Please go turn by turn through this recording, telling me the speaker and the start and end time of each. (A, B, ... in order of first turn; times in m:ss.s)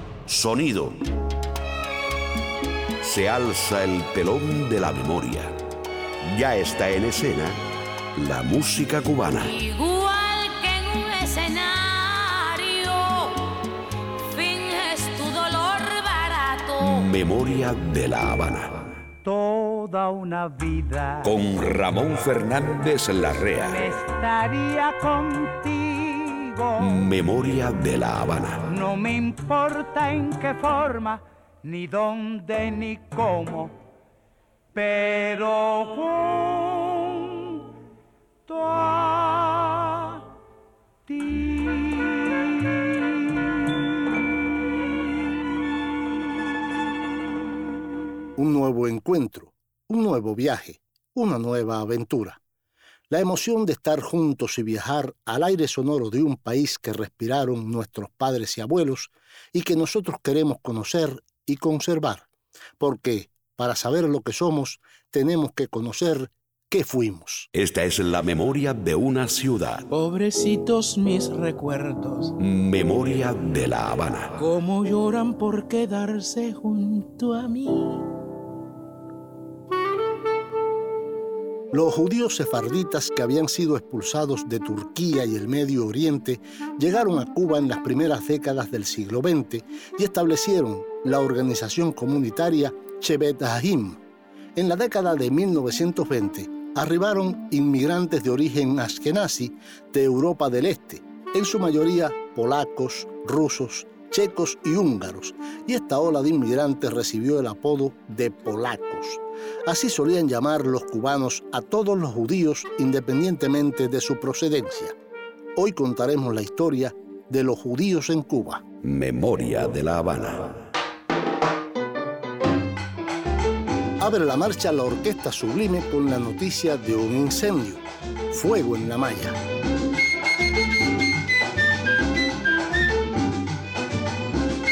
0:00.3-0:01.0 A
0:03.0-0:05.5 A
0:06.2-0:07.6 A
0:08.2-0:09.5 A
0:09.4-0:13.4 B
0:14.3-0:17.0 B
0:16.8-0:18.9 A
0:19.2-0:21.3 C
0:21.2-0:23.8 A
0:23.6-0:27.0 C
0:26.8-0:28.6 A
0:28.7-0:33.7 C
0:34.7-0:37.5 C
0:38.5-0:40.2 C
0:41.1-0:42.3 C
0:48.4-0:52.4 D
0:53.1-1:02.3 D
1:02.8-1:07.5 D
1:07.5-1:09.9 A
1:09.9-1:12.4 E
1:12.4-1:14.3 A
1:14.4-1:18.1 E
1:21.7-1:34.0 D
1:34.6-1:54.9 D
1:55.6-1:58.6 D
1:58.8-2:00.6 A
2:04.0-2:09.4 D